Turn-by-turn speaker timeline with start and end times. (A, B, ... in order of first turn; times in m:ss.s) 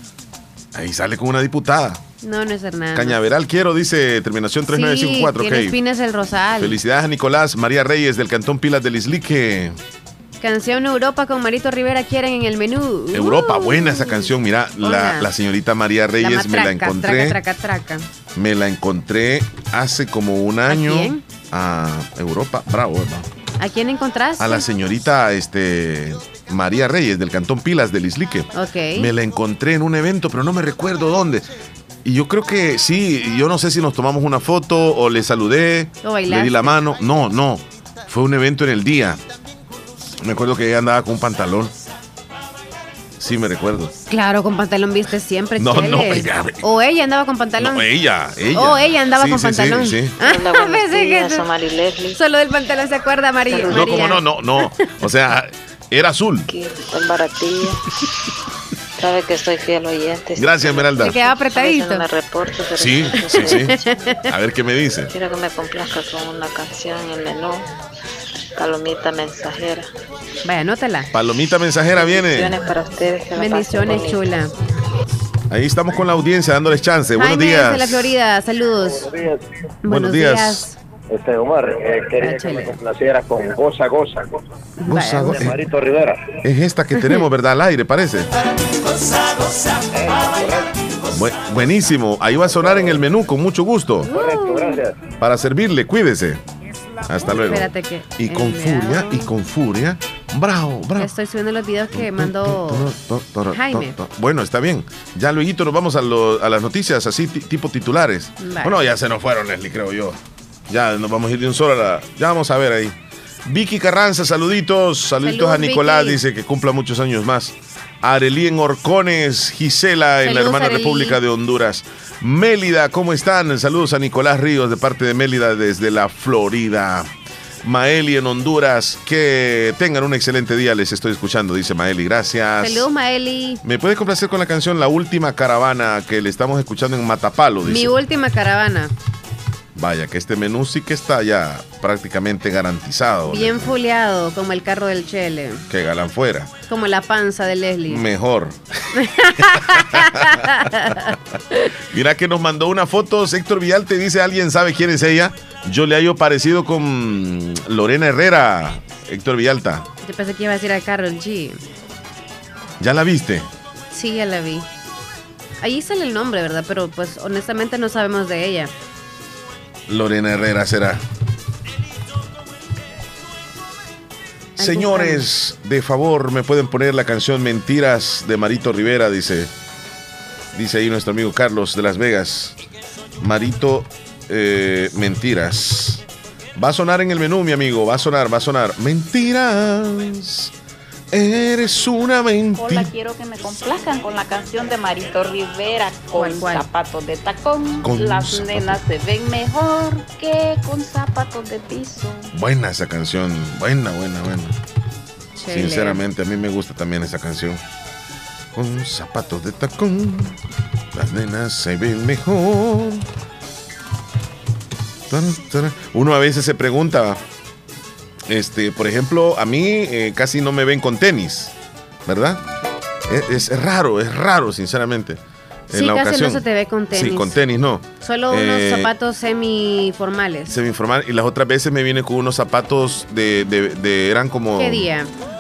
0:00.7-0:02.0 A
0:02.2-0:03.2 B
0:02.9-0:05.8 A
0:04.7-0:06.8 B
0:06.6-0:09.8 A
0:10.4-0:15.3 B
0:13.1-0:17.4 A
0:16.2-0:18.0 B
0:18.3-0:23.2 A
0:20.7-0:21.2 B
0:23.6-0:24.6 B
0:24.4-0:31.5 A
0:28.5-0:29.1 B
0:32.0-0:39.2 A
0:36.0-0:36.8 B
0:40.2-0:41.7 A
0:43.2-0:43.9 A
0:44.1-0:47.9 B
0:45.6-0:46.6 A
0:47.6-0:50.2 A
0:48.5-0:51.5 B
0:50.2-0:52.2 C
0:52.1-0:54.7 B
0:53.5-0:54.1 C
0:53.7-0:56.5 A
0:56.5-0:57.8 C
0:59.0-1:03.7 C
1:00.4-1:01.1 A
1:01.0-1:02.0 B
1:02.8-1:03.7 A
1:03.4-1:04.2 B
1:04.3-1:05.1 A
1:05.1-1:07.6 C
1:08.6-1:09.9 C
1:10.4-1:11.1 B
1:11.1-1:12.5 A
1:11.9-1:14.2 C
1:13.4-1:14.5 B
1:15.5-1:18.1 A
1:17.2-1:19.1 B
1:19.8-1:20.8 B
1:19.9-1:20.7 A
1:21.1-1:24.3 D
1:22.2-1:22.8 B
1:24.8-1:25.5 B
1:24.8-1:25.6 A
1:25.3-1:26.2 D
1:26.4-1:28.3 A
1:30.0-1:30.6 D
1:31.1-1:34.1 A
1:34.1-1:34.8 B
1:34.1-1:34.9 D
1:35.2-1:36.4 A
1:37.1-1:41.1 A
1:37.2-1:39.3 B
1:41.0-1:42.8 B
1:41.9-1:50.2 A
1:43.5-1:44.0 B
1:48.4-1:48.8 B
1:50.7-2:07.1 A
1:55.2-1:56.2 B
2:00.2-2:01.2 B
2:07.6-2:12.9 A
2:12.6-2:13.6 B
2:13.6-2:17.9 A
2:17.6-2:18.9 B
2:19.7-2:23.7 A
2:23.2-2:25.6 B
2:25.7-2:26.5 A
2:26.7-2:28.0 B
2:27.9-2:28.6 A
2:29.0-2:31.1 B
2:29.5-2:30.5 A
2:31.9-2:39.8 A
2:40.0-2:41.6 B
2:42.8-2:43.5 A
2:43.9-2:44.7 B
2:45.6-2:48.7 B
2:49.9-2:51.0 A
2:54.6-2:59.5 A
2:54.6-2:55.2 B
3:00.5-3:02.6 A
3:03.2-3:06.0 A
3:06.6-3:10.5 A
3:11.1-3:12.9 A
3:12.6-3:22.3 E
3:16.2-3:16.7 B
3:17.8-3:18.8 A
3:22.3-3:24.5 A
3:25.4-3:26.0 B
3:25.5-3:27.6 A
3:28.5-3:30.4 A
3:30.9-3:33.0 A
3:35.1-3:37.2 A
3:38.3-3:41.5 A
3:42.0-3:42.4 A
3:43.1-3:48.9 A
3:45.7-3:47.4 B
3:48.0-3:50.5 B
3:50.5-3:54.9 A
3:54.6-3:55.1 B